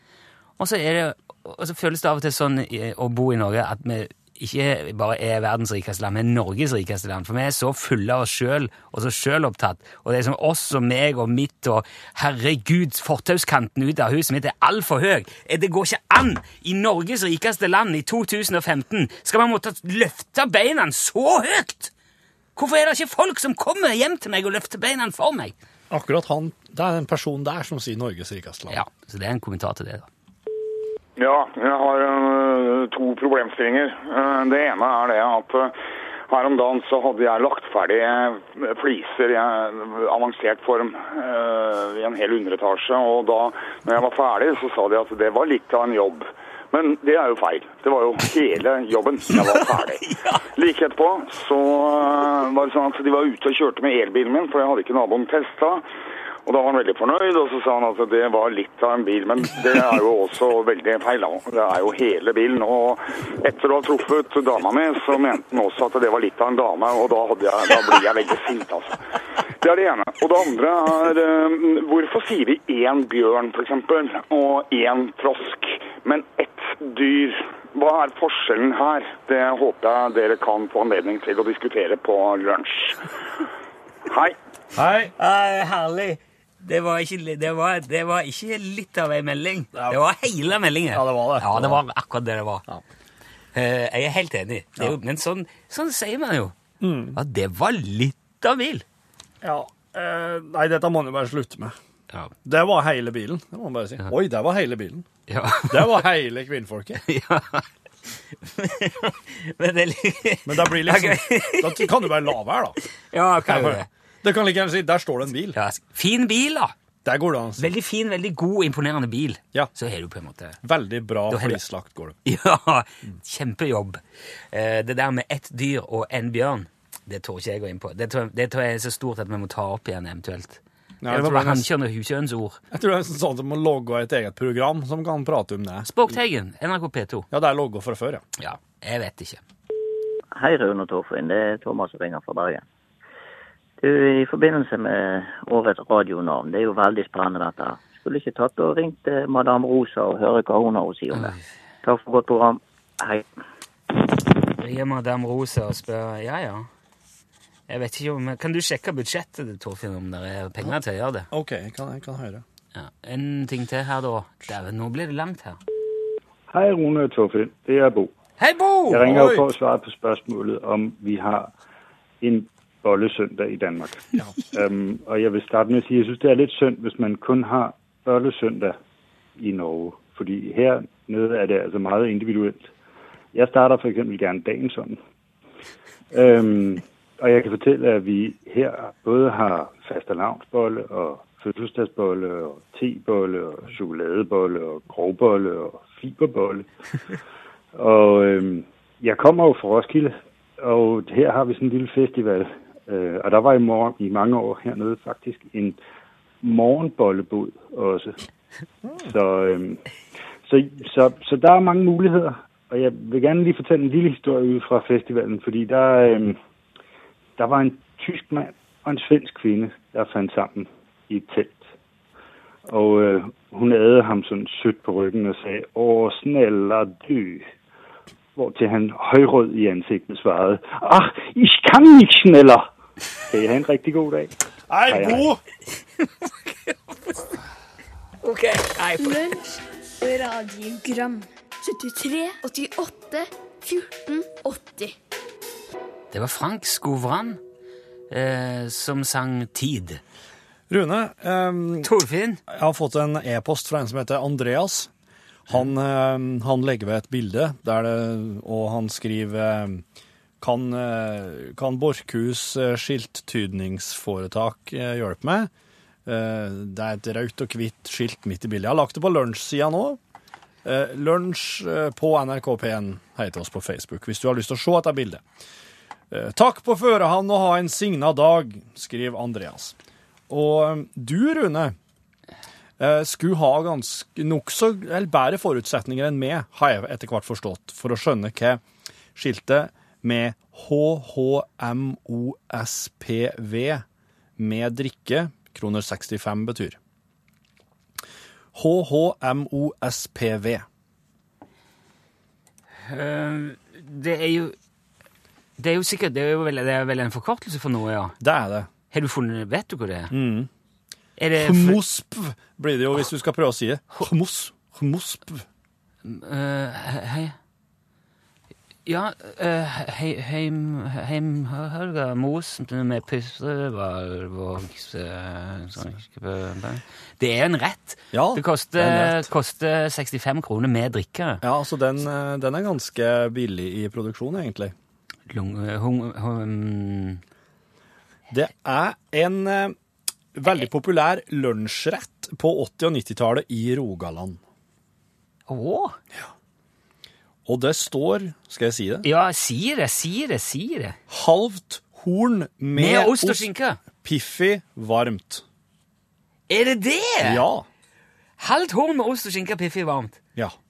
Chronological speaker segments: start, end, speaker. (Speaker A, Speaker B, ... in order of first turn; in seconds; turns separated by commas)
Speaker A: 0.6-21.9, Speaker A: 22.6-25.5, Speaker B: 25.9-28.8, Speaker A: 28.7-30.1, Speaker C: 31.2-35.7, Speaker C: 36.3-55.8, Speaker A: 50.0-50.4, Speaker C: 56.5-69.0, Speaker C: 69.6-83.1, Speaker C: 84.1-84.3, Speaker B: 84.7-85.1, Speaker A: 85.2-92.6, Speaker B: 90.9-91.8, Speaker A: 93.5-96.5, Speaker B: 96.8-97.2, Speaker A: 97.1-98.8, Speaker B: 99.4-101.8, Speaker B: 102.4-105.0, Speaker A: 105.3-106.0, Speaker B: 105.7-107.0, Speaker A: 107.0-112.0, Speaker B: 110.5-112.8, Speaker A: 113.1-113.9, Speaker B: 113.4-115.6, Speaker A: 115.5-116.7, Speaker B: 117.0-117.7, Speaker A: 117.6-120.6, Speaker B: 120.6-122.2, Speaker A: 121.3-121.6, Speaker A: 122.2-124.0, Speaker A: 124.5-132.6, Speaker B: 131.0-131.7, Speaker B: 132.7-135.9, Speaker A: 135.8-137.3, Speaker B: 137.3-138.2, Speaker A: 138.4-139.4, Speaker D: 140.3-142.6, Speaker D: 143.8-153.2, Speaker A: 154.6-156.7, Speaker A: 157.7-161.3, Speaker B: 161.3-162.4, Speaker A: 162.7-165.6, Speaker E: 166.5-168.1, Speaker A: 168.4-169.2, Speaker E: 168.9-171.5, Speaker B: 169.0-169.5, Speaker E: 172.2-178.8, Speaker E: 179.4-182.7, Speaker E: 183.3-185.0, Speaker E: 186.1-196.7, Speaker E: 197.8-205.8, Speaker E: 206.4-208.2, Speaker E: 209.0-209.8, Speaker E: 210.4-216.4, Speaker E: 217.4-221.6, Speaker E: 222.7-227.4, Speaker E: 228.3-232.7, Speaker E: 233.3-234.3, Speaker B: 234.7-235.4, Speaker E: 234.9-235.3, Speaker A: 236.0-237.2, Speaker A: 238.2-239.3, Speaker F: 239.0-244.9, Speaker A: 246.1-247.4, Speaker A: 248.1-250.0, Speaker B: 250.7-251.9, Speaker A: 251.8-252.4, Speaker B: 252.5-254.9, Speaker B: 255.5-259.8, Speaker B: 260.4-265.5, Speaker B: 266.1-270.0, Speaker B: 270.6-275.2, Speaker B: 276.1-279.7, Speaker B: 280.3-281.8, Speaker B: 282.8-288.6, Speaker B: 289.1-293.8, Speaker B: 294.4-296.8, Speaker B: 298.5-300.6, Speaker A: 302.9-304.6, Speaker A: 305.6-308.2, Speaker B: 308.2-308.7, Speaker A: 308.9-310.1, Speaker B: 310.1-310.5, Speaker A: 311.2-311.8, Speaker B: 311.4-315.4, Speaker A: 316.0-317.4, Speaker A: 318.9-331.4, Speaker B: 328.1-329.3, Speaker B: 331.4-334.7, Speaker A: 335.3-337.2, Speaker B: 338.3-339.8, Speaker B: 340.3-344.4, Speaker A: 345.5-346.0, Speaker B: 347.4-349.1, Speaker A: 349.0-351.0, Speaker B: 351.1-355.4, Speaker A: 352.8-353.8, Speaker A: 356.5-357.4, Speaker B: 357.2-357.6, Speaker A: 358.4-360.2